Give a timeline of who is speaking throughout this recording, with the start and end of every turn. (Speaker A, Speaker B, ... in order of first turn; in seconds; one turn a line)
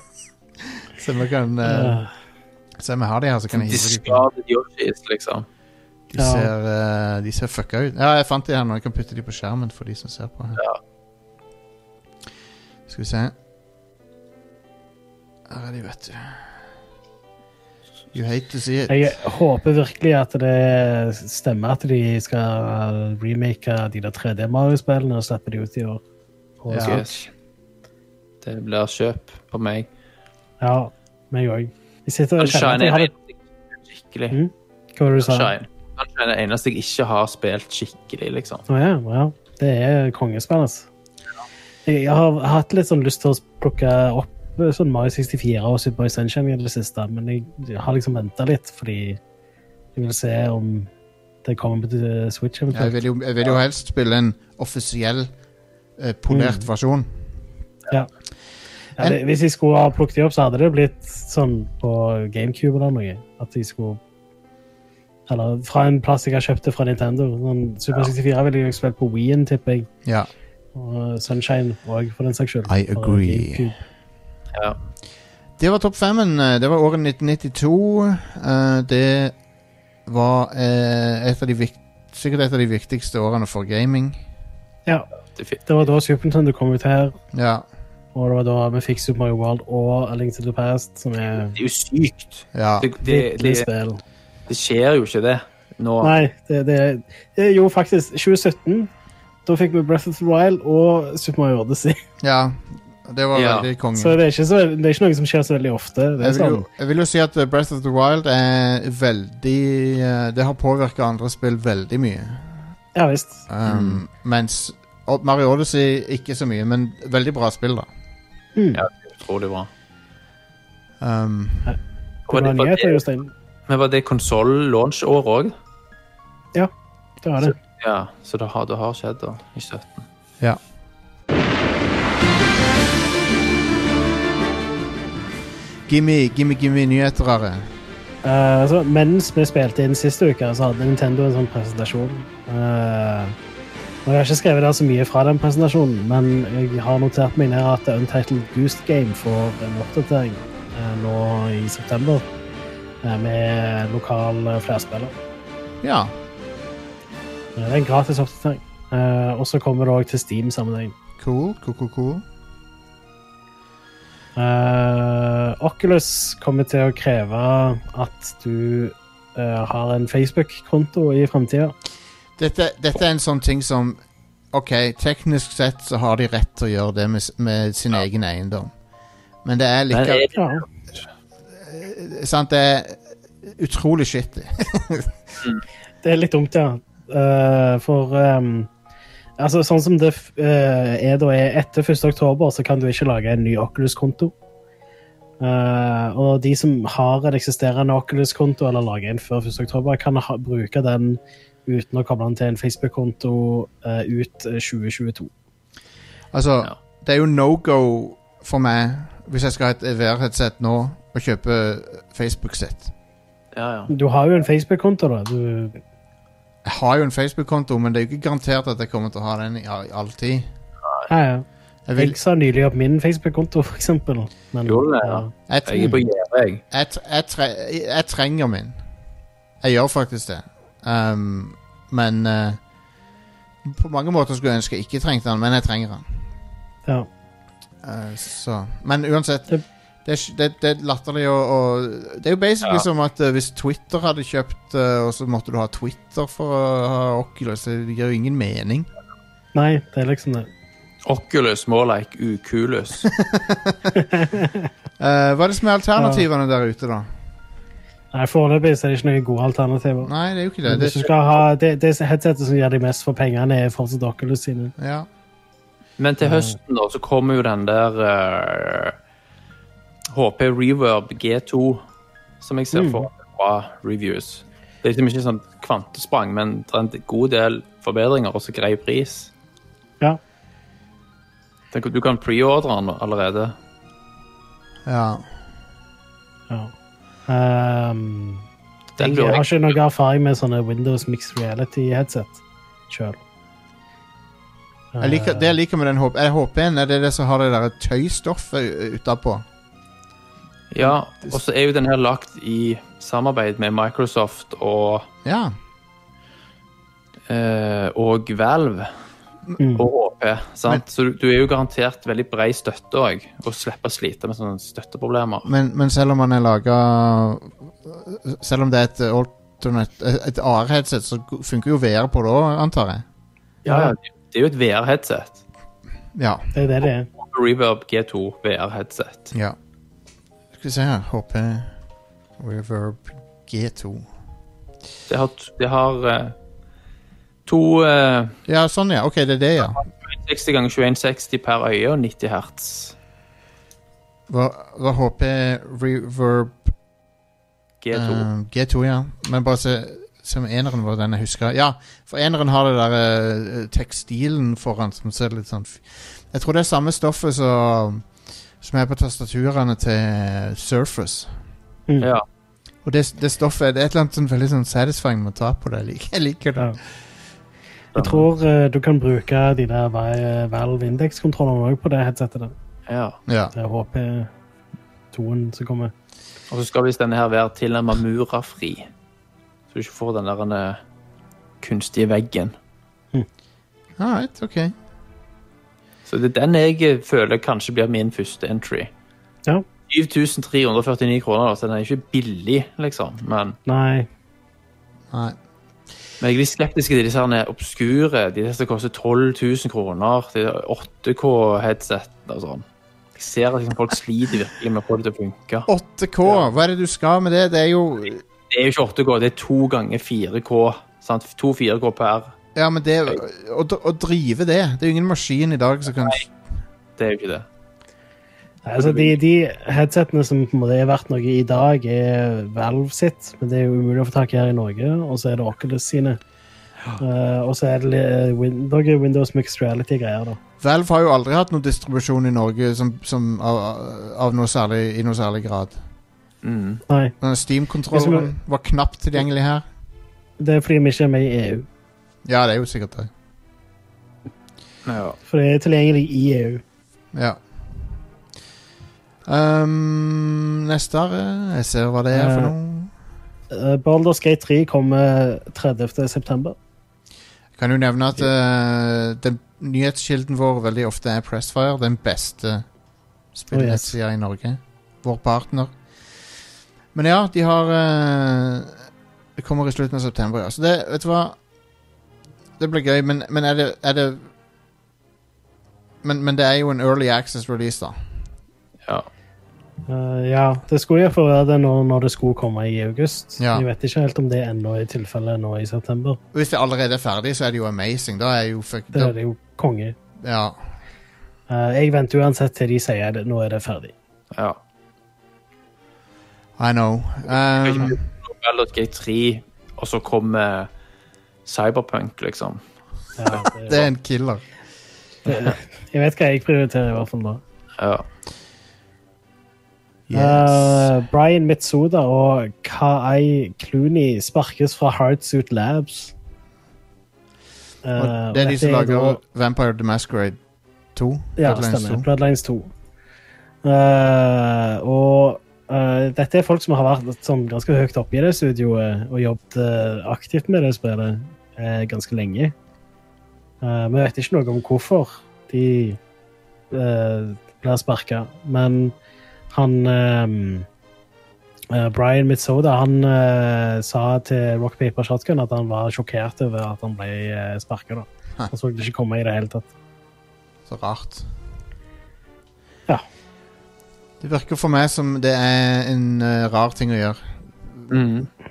Speaker A: 0.9-2.0
Speaker B: 1.6-2.1
Speaker A: 2.8-4.2
Speaker C: 3.5-5.5
Speaker A: 6.1-10.6
Speaker B: 6.2-6.5
Speaker A: 12.9-13.3
Speaker A: 15.5-16.4
Speaker A: 18.1-19.2
Speaker B: 18.9-26.0
Speaker B: 26.6-27.2
Speaker A: 26.7-27.0
Speaker C: 26.8-27.3
Speaker C: 28.4-29.9
Speaker B: 30.6-33.1
Speaker C: 32.4-34.4
Speaker B: 34.3-35.5
Speaker C: 35.2-38.6
Speaker B: 38.7-40.9
Speaker B: 41.9-49.2
Speaker B: 50.0-50.9
Speaker B: 51.5-53.0
Speaker A: 52.7-55.3
Speaker A: 56.0-57.1
Speaker B: 56.3-56.7
Speaker B: 59.0-64.0
Speaker B: 65.3-69.9
Speaker B: 70.8-73.8
Speaker A: 72.7-73.7
Speaker A: 75.6-79.3
Speaker A: 80.1-84.2
Speaker C: 85.4-85.6
Speaker B: 85.7-87.2
Speaker A: 87.3-87.7
Speaker B: 88.2-91.6
Speaker C: 91.5-93.7
Speaker A: 92.5-92.9
Speaker B: 93.0-94.0
Speaker C: 94.5-96.2
Speaker B: 96.0-98.9
Speaker B: 99.5-102.0
Speaker A: 102.2-104.2
Speaker C: 103.3-103.7
Speaker B: 104.0-106.7
Speaker A: 106.2-112.7
Speaker B: 113.0-113.5
Speaker A: 113.5-117.9
Speaker C: 113.7-114.0
Speaker B: 118.6-118.8
Speaker C: 118.8-119.7
Speaker A: 121.0-121.7
Speaker C: 122.3-123.0
Speaker B: 122.3-123.3
Speaker C: 123.7-125.5
Speaker B: 127.2-127.5
Speaker C: 127.4-130.1
Speaker A: 135.9-137.7
Speaker B: 138.2-143.3
Speaker B: 144.1-152.2
Speaker B: 153.0-155.1
Speaker A: 155.8-156.1
Speaker B: 157.6-160.9
Speaker A: 161.2-162.2
Speaker B: 164.4-171.7
Speaker A: 172.4-174.0
Speaker A: 174.5-178.7
Speaker A: 179.4-180.3
Speaker C: 179.9-180.7
Speaker B: 180.3-180.7
Speaker A: 181.6-185.2
Speaker B: 186.0-188.7
Speaker B: 189.4-194.3
Speaker B: 195.4-205.3
Speaker A: 206.3-212.9
Speaker C: 213.5-213.9
Speaker B: 213.9-215.8
Speaker A: 216.7-220.5
Speaker B: 221.1-221.4
Speaker A: 221.9-222.2
Speaker B: 222.0-226.0
Speaker C: 224.7-226.6
Speaker A: 225.5-226.0
Speaker A: 226.7-228.8
Speaker A: 229.6-232.6
Speaker A: 233.6-236.1
Speaker A: 237.8-239.5
Speaker A: 240.1-248.9
Speaker B: 249.6-250.5
Speaker C: 251.1-253.1
Speaker A: 253.1-253.9
Speaker B: 254.0-254.7
Speaker A: 255.0-257.1
Speaker B: 256.0-256.2
Speaker B: 258.1-260.1
Speaker A: 260.0-261.1
Speaker B: 260.6-264.7
Speaker A: 264.8-265.1
Speaker C: 266.0-268.9
Speaker B: 266.2-266.6
Speaker C: 270.1-271.8
Speaker C: 272.4-279.3
Speaker B: 272.7-273.1
Speaker C: 281.7-283.6
Speaker A: 284.9-285.3
Speaker B: 287.3-288.4
Speaker C: 289.0-289.7
Speaker B: 289.0-293.2
Speaker B: 294.9-295.5
Speaker A: 295.0-299.4
Speaker C: 300.7-305.1
Speaker A: 300.8-301.4
Speaker A: 305.2-305.6
Speaker C: 307.3-308.9
Speaker B: 309.6-309.9
Speaker C: 309.8-315.5
Speaker A: 315.4-323.0
Speaker B: 323.6-323.9
Speaker C: 323.7-325.4
Speaker A: 326.1-326.5
Speaker B: 326.6-327.1
Speaker C: 327.2-329.3
Speaker A: 330.6-331.7
Speaker A: 332.4-334.1
Speaker C: 335.1-336.4
Speaker C: 337.5-338.4
Speaker A: 338.5-339.8
Speaker C: 339.8-342.9
Speaker A: 344.3-346.7
Speaker C: 347.8-348.3
Speaker A: 347.9-358.1
Speaker A: 358.6-361.3
Speaker A: 362.9-366.8
Speaker C: 367.9-368.3
Speaker B: 368.0-372.5
Speaker C: 372.9-373.2
Speaker A: 373.3-373.5
Speaker B: 373.5-374.3
Speaker B: 375.1-375.9
Speaker C: 376.5-378.9
Speaker C: 379.7-380.8
Speaker C: 381.6-382.5
Speaker A: 384.0-384.7
Speaker C: 386.1-388.9
Speaker C: 389.9-393.6
Speaker B: 393.7-394.1
Speaker A: 395.1-395.4
Speaker C: 396.2-402.6
Speaker C: 403.2-405.7
Speaker A: 405.7-408.2
Speaker C: 408.5-412.3
Speaker A: 412.6-416.3
Speaker C: 417.0-417.5
Speaker B: 418.7-426.2
Speaker C: 418.8-419.1
Speaker B: 427.0-430.4
Speaker A: 430.6-435.8
Speaker C: 436.4-436.8
Speaker B: 436.9-437.2
Speaker A: 437.2-439.6
Speaker B: 437.9-438.3
Speaker B: 440.4-441.7
Speaker A: 442.2-443.1
Speaker C: 444.9-445.2
Speaker B: 445.3-446.6
Speaker A: 447.1-447.4
Speaker A: 449.3-452.9
Speaker B: 452.1-452.5
Speaker B: 453.5-456.6
Speaker A: 457.6-462.7
Speaker A: 463.4-465.7
Speaker B: 463.5-463.9
Speaker A: 466.9-468.8
Speaker A: 469.4-471.4
Speaker A: 472.6-474.3
Speaker A: 476.0-478.0
Speaker B: 479.9-486.2
Speaker A: 483.4-483.6
Speaker A: 486.3-489.2
Speaker B: 488.9-489.9
Speaker A: 490.2-490.6
Speaker B: 491.5-493.9
Speaker A: 496.6-498.0
Speaker C: 497.6-500.7
Speaker C: 501.5-502.6
Speaker B: 503.2-503.9
Speaker A: 503.3-504.4
Speaker B: 505.3-507.4
Speaker C: 507.8-508.1
Speaker A: 510.1-510.9
Speaker B: 510.1-516.1
Speaker B: 517.8-519.2
Speaker A: 518.0-520.4
Speaker A: 521.0-522.1
Speaker B: 521.4-522.7
Speaker B: 523.6-532.5
Speaker B: 533.6-536.0
Speaker B: 536.7-539.0
Speaker B: 539.5-540.7
Speaker B: 541.7-549.7
Speaker A: 550.7-551.3
Speaker A: 554.2-557.9
Speaker C: 557.9-558.3